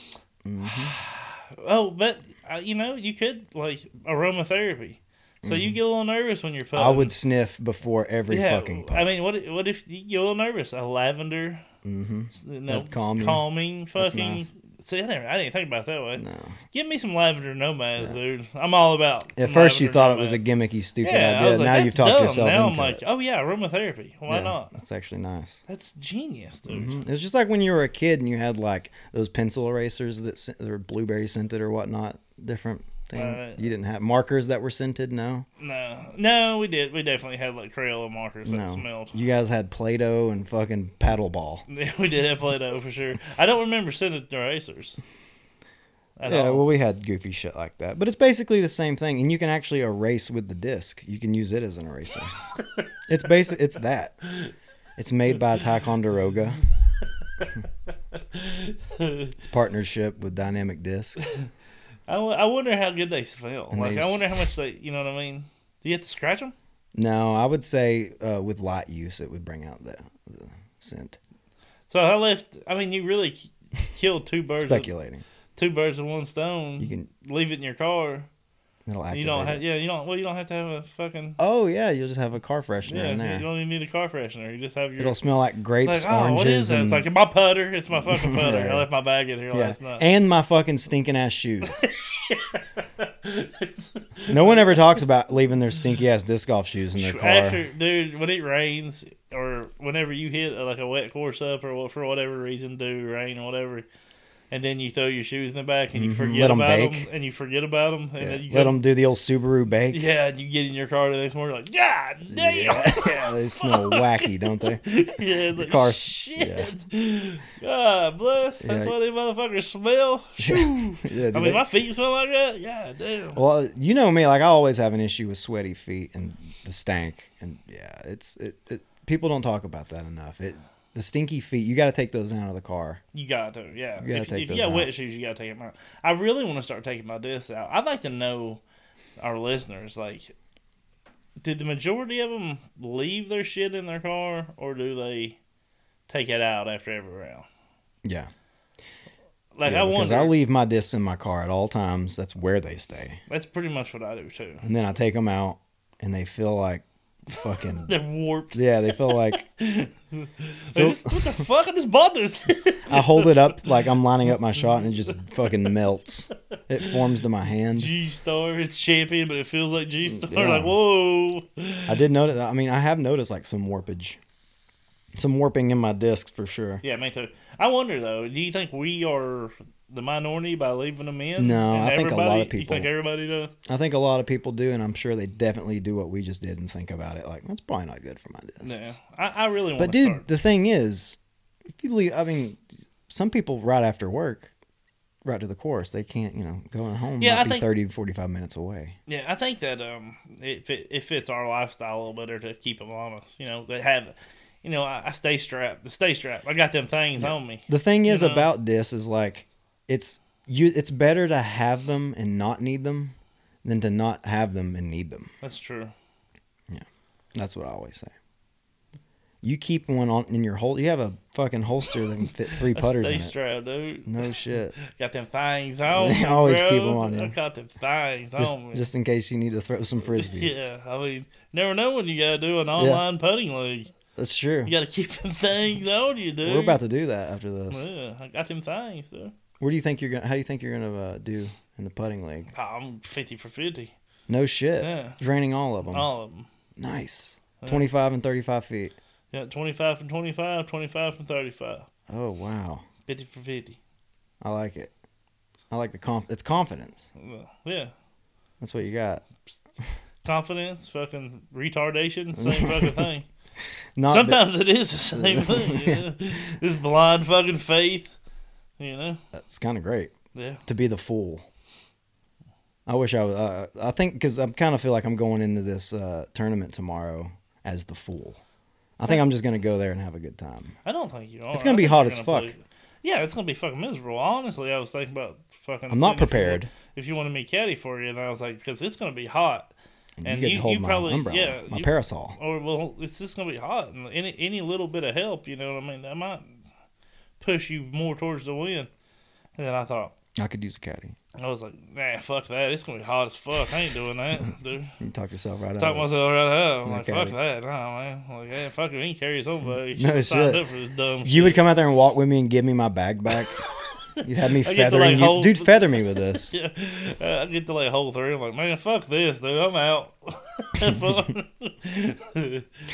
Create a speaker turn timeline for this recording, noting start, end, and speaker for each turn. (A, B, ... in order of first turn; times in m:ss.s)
0:00.4-0:01.0 A
0:00.6-0:07.1 B
0:05.4-0:05.8 A
0:06.7-0:09.1 A
0:08.3-0:11.6 B
0:11.8-0:13.4 A
0:12.3-0:20.4 B
0:13.9-0:14.4 A
0:16.2-0:16.6 A
0:19.4-0:23.0 A
0:21.0-0:24.7 B
0:24.3-0:25.6 A
0:25.7-0:27.0 B
0:26.7-0:35.4 A
0:33.1-0:33.6 B
0:35.6-0:39.2 B
0:38.4-0:41.6 A
0:41.7-0:45.0 B
0:46.2-0:46.7 B
0:46.2-0:52.3 A
0:53.1-0:54.2 A
0:54.3-0:54.5 B
0:55.0-0:56.6 A
0:58.1-0:59.3 B
0:59.4-1:01.2 A
1:02.1-1:06.5 B
1:03.7-1:04.2 A
1:06.9-1:11.2 A
1:11.9-1:14.9 B
1:14.6-1:15.2 A
1:15.6-1:18.3 B
1:16.8-1:17.1 A
1:18.8-1:19.6 A
1:19.1-1:21.4 B
1:21.4-1:23.4 A
1:22.9-1:25.2 B
1:25.0-1:27.0 A
1:25.8-1:30.0 B
1:28.0-1:28.8 A
1:29.5-1:31.8 A
1:31.8-1:35.0 B
1:34.3-1:37.6 A
1:37.0-1:43.8 B
1:44.5-1:48.8 B
1:45.9-1:47.1 A
1:48.2-1:50.0 A
1:49.9-2:03.4 B
1:52.3-1:54.8 A
1:55.5-1:56.7 A
1:58.6-1:58.9 A
2:00.4-2:01.6 A
2:03.3-2:13.0 A
2:13.1-2:18.6 B
2:14.0-2:14.9 A
2:19.2-2:20.3 B
2:21.4-2:25.4 B
2:26.1-2:27.5 B
2:28.0-2:28.3 A
2:29.6-2:30.3 B
2:29.6-2:33.2 A
2:33.3-2:34.6 B
2:34.6-2:37.9 A
2:37.6-2:43.6 B
2:38.5-2:39.4 A
2:40.7-2:41.4 A
2:42.9-2:47.9 A
2:47.7-2:52.0 B
2:50.0-2:50.7 A
2:51.9-2:54.2 A
2:55.2-2:56.8 A
2:56.8-3:03.5 B
3:01.4-3:02.9 A
3:03.6-3:08.9 A
3:08.6-3:10.3 B
3:09.8-3:11.2 A
3:11.7-3:14.5 A
3:15.2-3:19.0 A
3:17.2-3:17.7 B
3:19.1-3:28.5 B
3:27.2-3:35.3 A
3:35.4-3:35.9 B
3:36.7-3:38.1 A
3:39.4-3:43.3 A
3:42.6-3:48.8 B
3:44.0-3:44.8 A
3:45.9-3:47.3 A
3:48.4-3:50.6 A
3:50.0-3:53.9 B
3:52.8-3:53.0 A
3:54.2-3:54.7 A
3:54.6-3:56.8 B
3:56.4-3:57.9 A
3:57.7-3:59.3 B
3:59.6-4:02.5 A
4:02.5-4:03.9 B
4:04.3-4:06.1 A
4:04.8-4:05.2 B
4:05.9-4:06.5 B
4:06.8-4:08.9 A
4:07.6-4:07.9 B
4:09.3-4:11.9 B
4:12.1-4:12.8 A
4:13.1-4:13.8 B
4:14.4-4:14.9 A
4:15.7-4:17.1 A
4:17.2-4:17.9 B
4:18.6-4:19.2 A
4:20.2-4:23.3 B
4:22.4-4:23.1 A
4:24.0-4:24.4 A
4:24.1-4:28.1 B
4:25.1-4:26.0 A
4:28.8-4:29.2 B
4:29.3-4:30.1 A
4:30.3-4:30.6 B
4:30.6-4:31.5 A
4:32.8-4:38.4 A
4:39.0-4:40.8 A
4:40.8-4:49.7 B
4:41.5-4:42.5 A
4:45.9-4:46.7 A
4:50.2-4:52.4 A
4:50.2-4:56.6 B
4:57.4-4:58.9 B
4:59.6-5:00.1 B
5:00.4-5:01.2 A
5:01.4-5:04.9 B
5:05.0-5:06.1 A
5:05.8-5:11.6 B
5:06.8-5:07.4 A
5:09.9-5:10.6 A
5:11.2-5:13.6 A
5:13.7-5:14.0 B
5:14.2-5:16.5 A
5:14.6-5:22.7 B